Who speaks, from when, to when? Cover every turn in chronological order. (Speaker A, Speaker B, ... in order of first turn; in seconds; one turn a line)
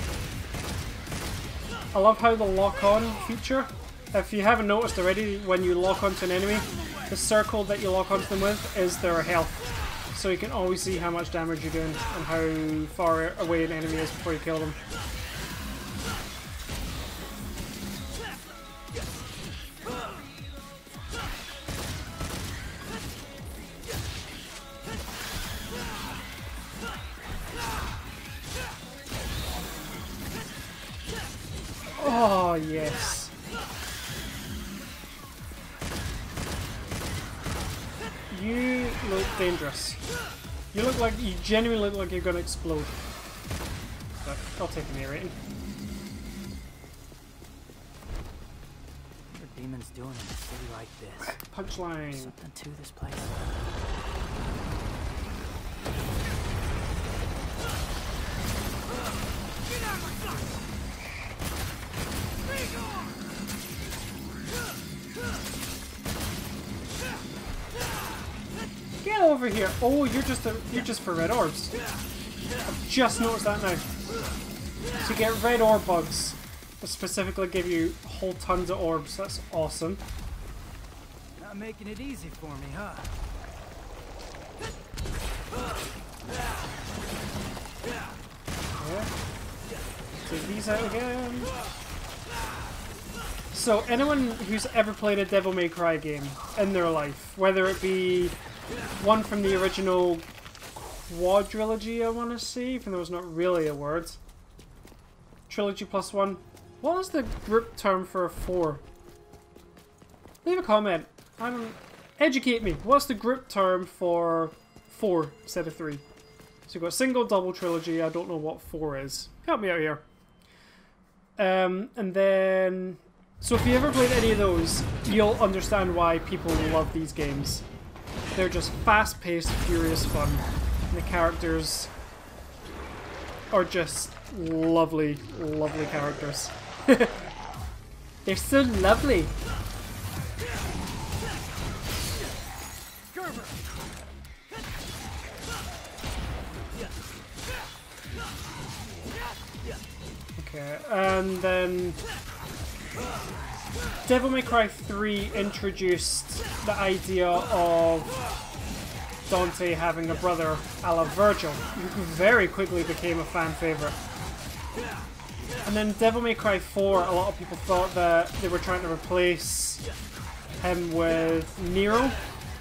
Speaker A: 1.9-14.8
Speaker A: 32.0-33.3
Speaker A: 38.3-40.0
Speaker A: 40.7-43.0
Speaker A: 44.2-45.4
Speaker B: 49.3-51.4
Speaker A: 51.2-52.4
Speaker B: 52.1-53.6
Speaker A: 69.0-71.7
Speaker A: 72.7-73.8
Speaker A: 75.0-80.0
Speaker B: 81.4-83.1
Speaker A: 88.8-89.1
Speaker A: 90.3-91.5
Speaker A: 93.5-98.4
Speaker A: 99.0-104.2
Speaker A: 105.5-108.8
Speaker A: 110.4-116.0
Speaker A: 116.7-120.0
Speaker A: 121.4-127.7
Speaker A: 128.3-131.9
Speaker A: 133.5-137.2
Speaker A: 138.2-139.3
Speaker B: 143.1-143.5
Speaker A: 150.4-152.0
Speaker A: 154.1-158.2
Speaker A: 159.3-164.0
Speaker A: 165.6-169.8
Speaker A: 170.6-172.2